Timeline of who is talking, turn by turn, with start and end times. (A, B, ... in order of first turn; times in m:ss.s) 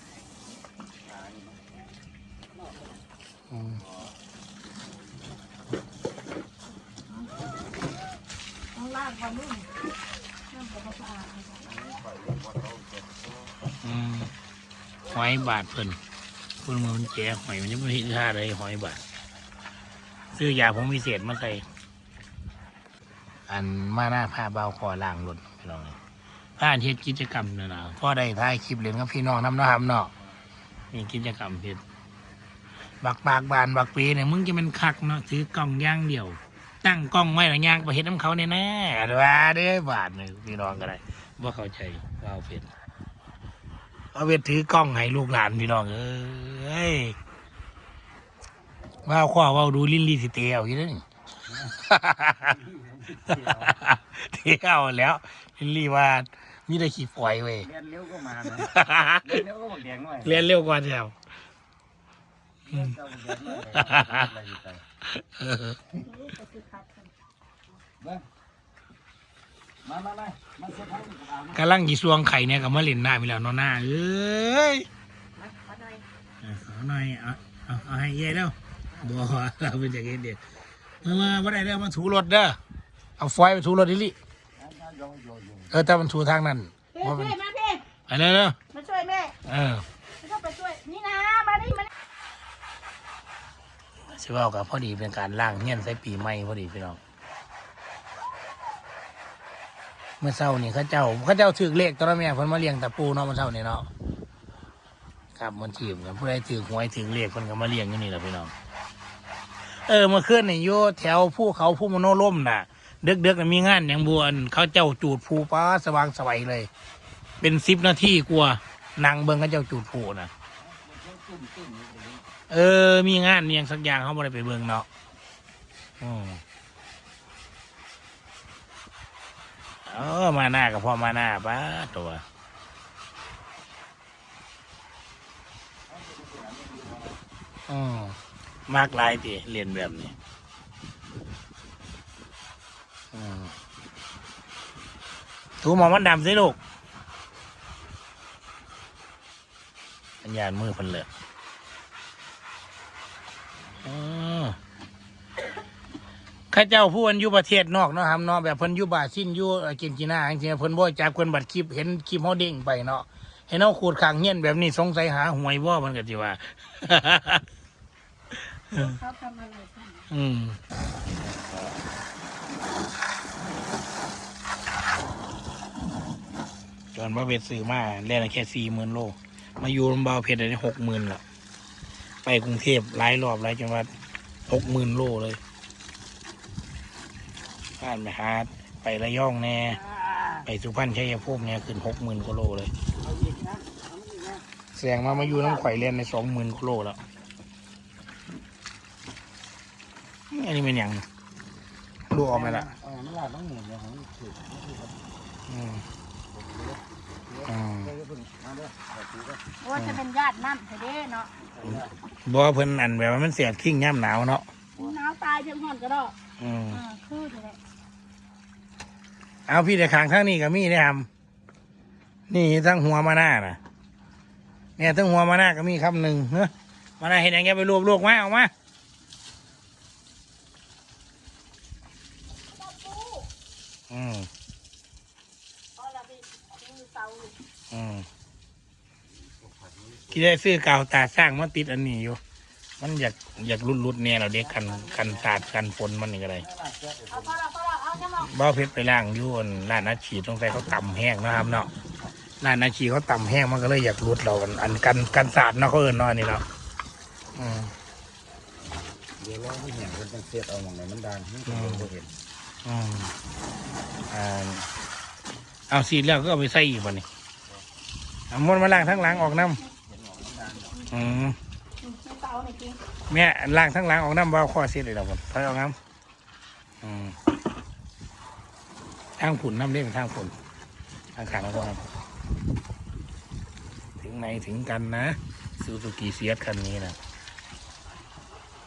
0:01.1-0:01.7 A
0:03.5-0:03.8 B
0:08.8-0:09.7 C
0:10.5-0:11.8 C
0:11.7-0:13.5 A
0:13.8-0:14.3 B
0:15.1-0:16.0 B
0:16.6-0:19.0 B
0:20.3-0:21.7 B
0:23.5-0:26.0 B
0:26.6-0:30.1 B
0:30.9-0:31.8 B
0:33.0-0:42.7 B
0:44.1-0:47.2 B
0:49.0-0:51.0 B
0:51.7-0:52.6 B
0:52.5-0:53.7 A
0:53.3-0:57.7 B
0:57.6-0:58.7 A
0:58.5-0:59.4 B
0:59.2-1:00.4 A
1:00.2-1:01.2 B
1:02.7-1:04.8 A
1:03.6-1:04.3 B
1:05.1-1:05.9 B
1:06.0-1:07.1 C
1:08.0-1:08.2 A
1:09.8-1:11.6 A
1:11.5-1:14.9 B
1:15.4-1:16.0 C
1:16.4-1:20.4 B
1:21.0-1:22.6 B
1:23.2-1:24.2 B
1:24.6-1:25.7 A
1:25.7-1:27.4 B
1:27.0-1:27.8 C
1:28.1-1:28.6 B
1:28.7-1:29.4 C
1:29.5-1:29.8 B
1:30.2-1:31.9 C
1:34.1-1:37.0 B
1:40.2-1:43.9 B
1:45.4-1:48.5 B
1:49.8-1:56.7 B
1:57.4-2:00.3 B
2:00.6-2:02.3 A
2:02.5-2:04.9 B
2:06.0-2:06.4 B
2:09.9-2:12.2 B
2:15.9-2:17.2 A
2:17.7-2:18.2 B
2:18.7-2:20.1 B
2:23.1-2:23.5 B
2:25.6-2:26.6 B
2:30.2-2:31.1 B
2:33.8-2:34.6 B
2:36.5-2:47.4 B
2:48.7-2:50.1 C
2:50.1-2:50.6 B
2:56.9-3:01.2 B
3:02.2-3:03.9 B
3:04.5-3:05.4 B
3:07.8-3:09.8 B
3:10.4-3:12.7 B
3:13.0-3:14.4 A
3:14.7-3:17.0 B
3:20.3-3:21.0 B
3:22.1-3:22.7 B
3:22.2-3:25.0 A
3:25.5-3:25.8 B
3:26.3-3:29.4 A
3:27.4-3:28.0 B
3:29.6-3:31.3 C
3:29.8-3:30.0 B
3:31.6-3:31.9 A
3:32.2-3:34.5 B
3:34.7-3:36.2 C
3:36.4-3:36.8 B
3:36.7-3:37.6 C
3:39.5-3:41.1 B
3:42.3-3:43.6 B
3:44.8-3:48.5 B
3:52.6-3:53.3 C
3:53.9-3:54.3 B
3:55.8-3:57.4 C
3:57.7-3:58.1 B
3:59.4-4:00.2 A
4:00.1-4:02.2 B
4:02.8-4:06.5 B
4:04.6-4:05.2 A
4:06.5-4:07.3 A
4:07.1-4:08.3 C
4:08.2-4:11.7 B
4:12.4-4:16.4 B
4:17.4-4:17.7 B
4:19.2-4:22.1 A
4:21.5-4:21.9 B
4:22.6-4:23.1 B
4:24.1-4:24.6 B
4:25.7-4:27.1 B
4:28.3-4:29.6 B
4:29.8-4:30.8 A
4:30.9-4:31.4 B
4:31.8-4:32.8 C
4:33.1-4:35.8 B
4:36.8-4:37.2 B
4:39.2-4:40.3 B
4:41.2-4:41.8 B
4:44.0-4:47.0 B